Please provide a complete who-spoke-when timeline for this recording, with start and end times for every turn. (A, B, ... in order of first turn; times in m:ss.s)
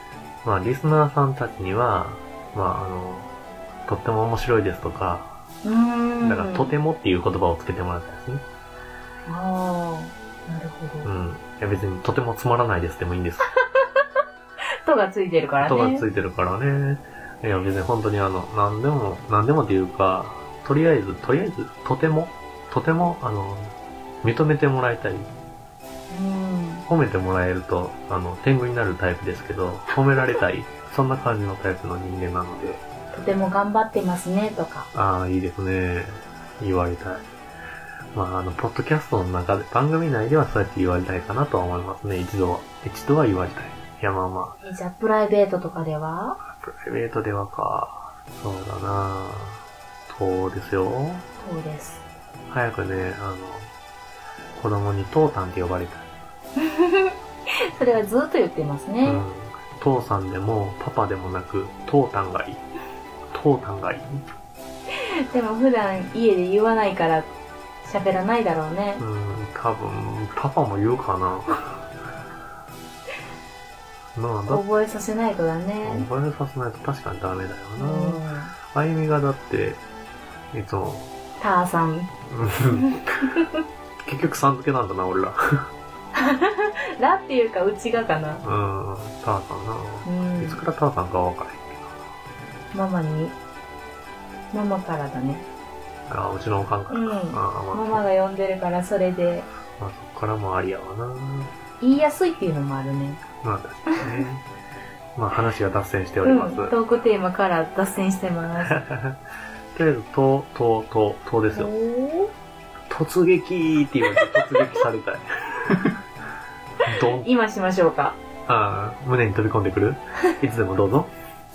0:00.4-0:03.3 A
0:03.9-0:05.3 A
0:05.6-0:06.7 B
0:06.2-0:08.4 A
0:09.2-0:11.1 B
0:11.0-0:13.5 A
0:14.8-0:16.0 B
0:15.6-0:25.3 A
0:26.1-0:26.8 B
0:26.9-0:32.8 A
0:33.1-0:34.9 B
0:34.9-0:37.2 A
0:38.1-0:44.6 A
0:44.6-0:46.4 B
0:46.4-0:51.2 A
0:51.4-0:52.0 B
0:52.5-0:53.7 A
0:54.6-0:56.1 A
0:56.6-0:59.2 B
0:59.0-1:02.6 A
1:03.3-1:04.2 A
1:05.0-1:07.3 B
1:07.8-1:09.0 B
1:09.0-1:11.8 A
1:14.1-1:14.6 A
1:14.5-1:16.1 B
1:15.8-1:19.8 A
1:17.8-1:18.5 B
1:20.5-1:21.1 A
1:21.4-1:22.1 B
1:22.3-1:23.3 A
1:22.7-1:23.5 B
1:24.0-1:25.7 A
1:26.1-1:28.4 B
1:28.4-1:31.9 A
1:30.0-1:30.6 B
1:32.7-1:33.4 B
1:34.5-1:35.4 B
1:36.1-1:38.0 A
1:36.9-1:39.5 B
1:39.8-1:41.5 A
1:41.8-1:43.2 B
1:43.4-1:44.4 A
1:45.2-1:46.8 A
1:46.2-1:48.8 B
1:48.6-1:49.2 A
1:49.7-1:51.7 A
1:51.5-1:52.3 B
1:52.9-1:56.0 A
1:56.9-1:57.3 A
1:57.0-1:58.2 B
1:58.5-2:01.1 A